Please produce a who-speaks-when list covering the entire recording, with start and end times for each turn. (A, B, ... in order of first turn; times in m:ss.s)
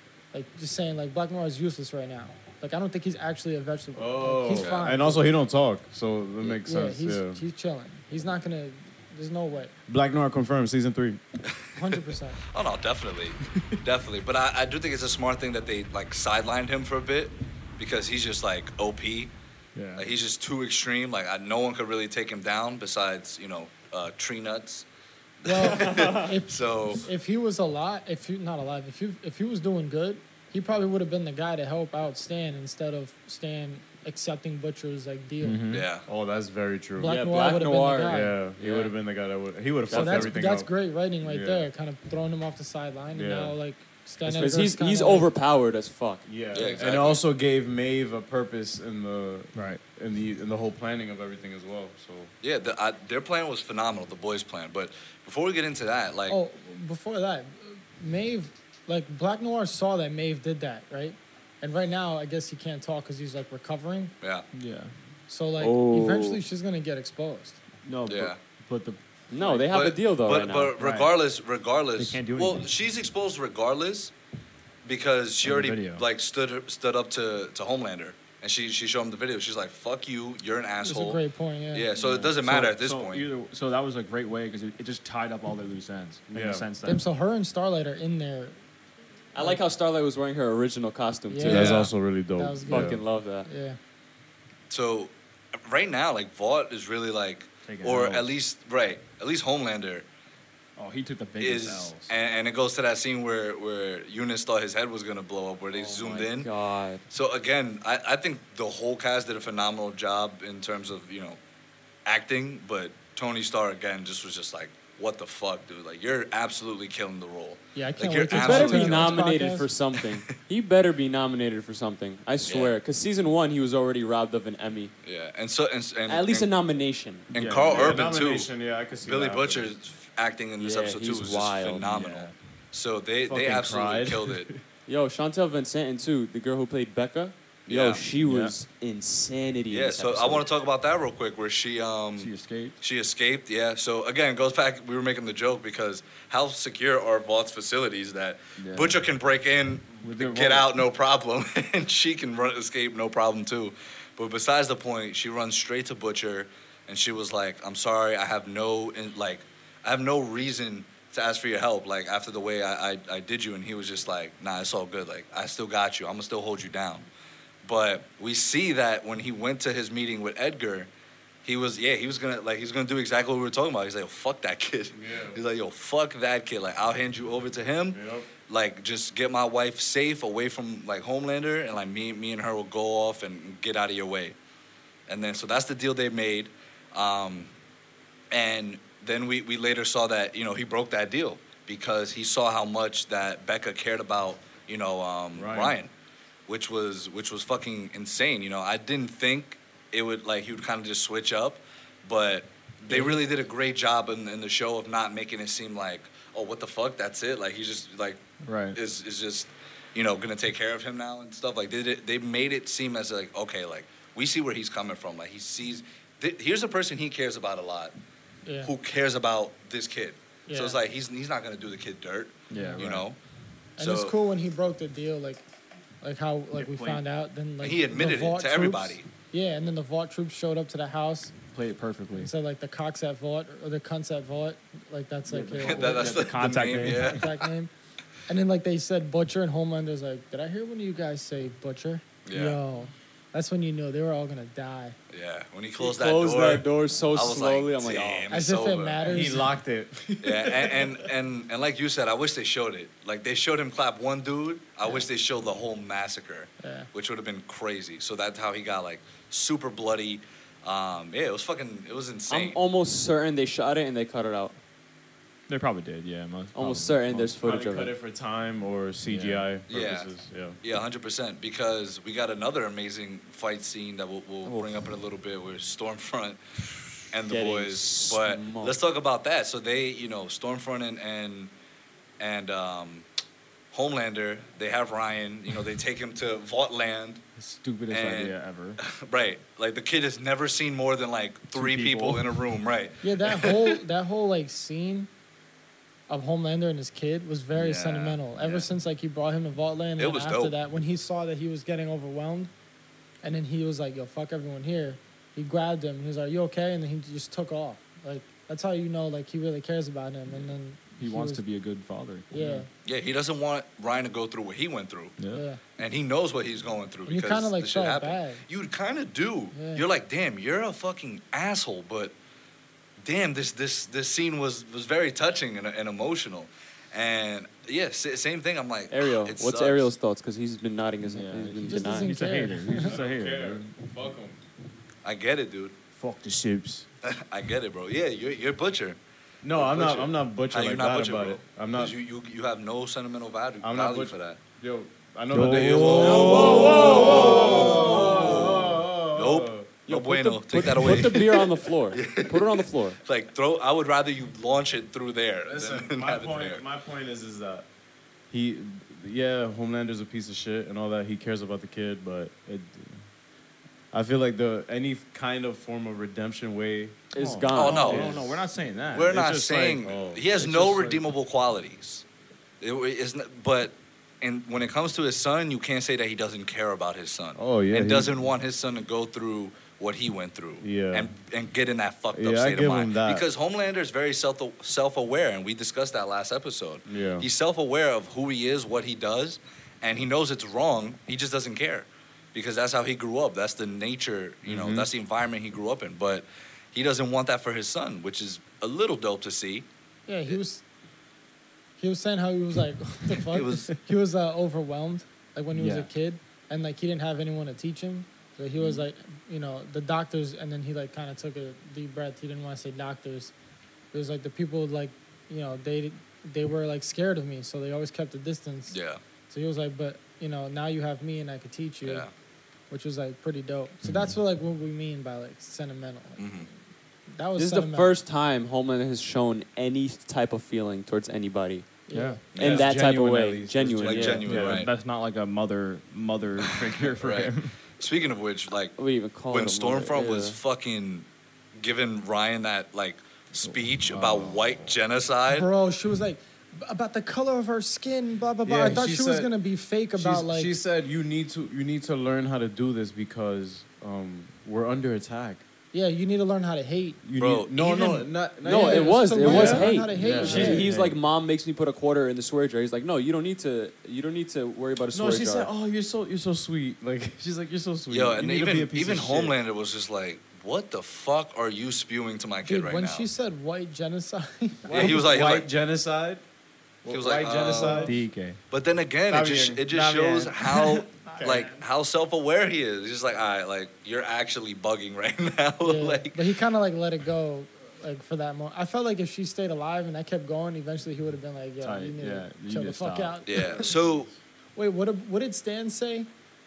0:00.3-0:05.3 A
0:03.9-0:07.4 B
0:04.6-0:04.8 C
0:06.6-0:09.7 A
0:09.9-0:11.2 B
0:11.5-0:19.3 C
0:11.8-0:12.4 A
0:19.7-0:20.1 D
0:20.0-0:24.8 C
0:25.4-0:27.0 C
0:25.4-0:35.6 A
0:35.4-0:35.9 D
0:35.7-0:36.0 C
0:36.0-0:37.2 B
0:37.0-0:38.4 A
0:37.0-0:38.9 E
0:38.1-0:40.7 B
0:39.9-0:40.3 E
0:39.9-0:45.3 A
0:41.2-0:41.7 B
0:43.1-0:43.6 B
0:44.2-0:46.3 E
0:46.2-0:52.3 B
0:46.5-0:47.2 C
0:49.5-0:49.8 D
0:52.4-0:56.4 C
0:56.3-1:04.1 A
1:04.2-1:04.4 C
1:04.5-1:04.9 D
1:05.3-1:07.6 A
1:05.6-1:06.4 E
1:07.8-1:09.6 D
1:08.0-1:08.4 C
1:09.3-1:10.7 E
1:09.7-1:14.1 C
1:10.8-1:11.2 D
1:12.0-1:12.7 D
1:14.8-1:21.2 C
1:15.4-1:16.0 D
1:20.8-1:21.9 A
1:21.7-1:23.3 C
1:22.0-1:27.0 D
1:26.3-1:26.6 B
1:26.8-1:28.6 A
1:29.3-1:31.9 E
1:31.3-1:31.8 A
1:31.4-1:33.0 B
1:31.4-1:31.9 C
1:32.4-1:33.8 A
1:32.7-1:33.5 E
1:34.7-1:35.1 C
1:35.6-1:40.0 C
1:37.6-1:38.4 D
1:40.8-1:42.1 D
1:41.4-1:46.5 C
1:45.7-1:47.0 E
1:47.1-1:51.4 C
1:52.0-1:59.5 C
1:57.7-1:59.7 A
1:58.3-2:04.9 E
2:02.5-2:02.7 C
2:05.0-2:06.5 C
2:06.1-2:07.3 E
2:07.3-2:08.5 C
2:07.3-2:08.0 D
2:07.6-2:09.7 B
2:09.0-2:14.5 C
2:10.6-2:11.9 E
2:11.8-2:12.3 D
2:13.2-2:14.4 B
2:14.9-2:20.4 E
2:17.7-2:18.0 C
2:18.2-2:18.5 D
2:19.7-2:47.1 C
2:22.2-2:22.8 D
2:28.6-2:29.0 D
2:30.0-2:30.7 D
2:47.6-2:50.9 C
2:51.4-3:04.4 C
2:54.9-2:55.4 B
2:57.9-2:58.3 B
3:05.1-3:07.5 C
3:08.3-3:15.9 C
3:15.3-3:15.8 B
3:16.5-3:28.2 C
3:22.9-3:23.2 D
3:28.4-3:28.8 D
3:28.7-3:37.9 C
3:38.4-3:38.7 A
3:38.6-3:43.2 C
3:40.5-3:40.8 A
3:42.5-3:43.1 D
3:42.5-3:42.8 A
3:43.8-3:45.4 A
3:43.8-3:44.1 C
3:46.0-3:51.3 A
3:46.5-3:47.0 D
3:47.6-3:49.0 C
3:51.5-3:52.3 D
3:52.1-3:56.2 A
3:55.3-3:57.2 D
3:55.6-3:57.4 C
3:56.8-3:57.7 A
3:58.3-4:05.0 A
4:02.2-4:02.6 C
4:05.1-4:09.0 C
4:05.8-4:08.4 E
4:08.3-4:09.5 A
4:09.0-4:11.1 B
4:10.2-4:22.6 C
4:16.6-4:16.9 A
4:22.3-4:24.6 E
4:25.5-4:27.4 D
4:26.5-4:27.9 E
4:27.4-4:30.6 B
4:29.1-4:29.5 D
4:29.7-4:30.1 C
4:30.6-4:36.4 C
4:34.4-4:34.8 E
4:37.1-4:41.5 C
4:37.3-4:38.8 E
4:42.2-4:43.0 C
4:43.7-4:47.2 C
4:47.4-4:48.8 D
4:47.9-4:53.7 C
4:51.5-4:52.4 D
4:53.0-4:55.1 A
4:56.1-5:02.5 A
4:57.5-4:58.2 C
5:00.0-5:00.6 C
5:03.2-5:11.4 A
5:11.0-5:12.6 D
5:12.3-5:12.7 A
5:12.8-5:15.2 C
5:15.2-5:15.4 D
5:15.3-5:15.6 A
5:15.8-5:22.1 C
5:17.0-5:18.4 A
5:19.5-5:19.8 A
5:23.0-5:29.9 C
5:28.9-5:32.2 E
5:31.0-5:33.7 D
5:31.6-5:32.9 A
5:32.8-5:34.4 B
5:35.0-5:35.8 C
5:36.0-5:36.8 D
5:37.0-5:39.0 C
5:39.4-5:41.9 B
5:39.5-5:44.4 C
5:43.6-5:49.7 B
5:45.3-5:46.8 D
5:45.3-5:56.6 C
5:46.0-5:48.4 E
5:49.9-5:53.0 E
5:55.5-5:57.6 B
5:58.3-6:02.3 B
6:02.5-6:03.0 D
6:03.9-6:07.0 B
6:07.1-6:08.1 E
6:07.2-6:09.8 D
6:07.5-6:08.1 C
6:07.8-6:08.4 B
6:08.9-6:12.0 C
6:09.1-6:10.9 B
6:10.4-6:11.0 D
6:12.6-6:39.6 C
6:17.3-6:18.2 B
6:20.6-6:21.1 B
6:22.1-6:23.3 B
6:26.9-6:27.3 B
6:34.4-6:34.9 B
6:40.1-6:40.6 A
6:41.8-6:53.3 A
6:43.2-6:43.7 C
6:45.5-6:45.9 D
6:53.9-6:58.8 A
6:58.7-6:59.0 C
6:59.3-7:02.1 A
7:01.8-7:02.1 C
7:02.7-7:06.3 A
7:03.8-7:04.1 D
7:06.2-7:06.5 C
7:07.1-7:08.0 A
7:07.4-7:11.7 E
7:11.9-7:12.2 A
7:11.9-7:12.2 D
7:12.3-7:12.7 C
7:12.3-7:14.3 E
7:12.4-7:14.6 B
7:13.8-7:14.7 C
7:14.2-7:17.5 D
7:16.5-7:18.7 C
7:18.8-7:20.4 E
7:19.3-7:25.5 C
7:23.4-7:24.7 D
7:25.3-7:30.6 A
7:28.4-7:29.3 B
7:30.0-7:35.4 B
7:35.7-7:37.0 A
7:37.0-7:40.7 B
7:37.2-7:38.1 C
7:38.4-7:45.5 E
7:38.4-7:40.6 A
7:39.5-7:40.9 D
7:44.9-7:49.3 B
7:47.9-7:53.1 C
7:52.4-7:55.0 A
7:54.6-7:56.2 B
7:54.7-7:55.5 C
7:56.8-7:58.0 B
7:56.9-7:57.9 C
7:57.5-7:58.4 D
7:58.5-8:06.2 C
7:59.1-8:00.4 B
7:59.7-8:00.2 D
8:00.7-8:01.6 D
8:01.2-8:01.5 B
8:05.6-8:13.7 A
8:11.6-8:13.2 D
8:13.2-8:14.1 C
8:13.4-8:14.1 B
8:14.6-8:16.1 A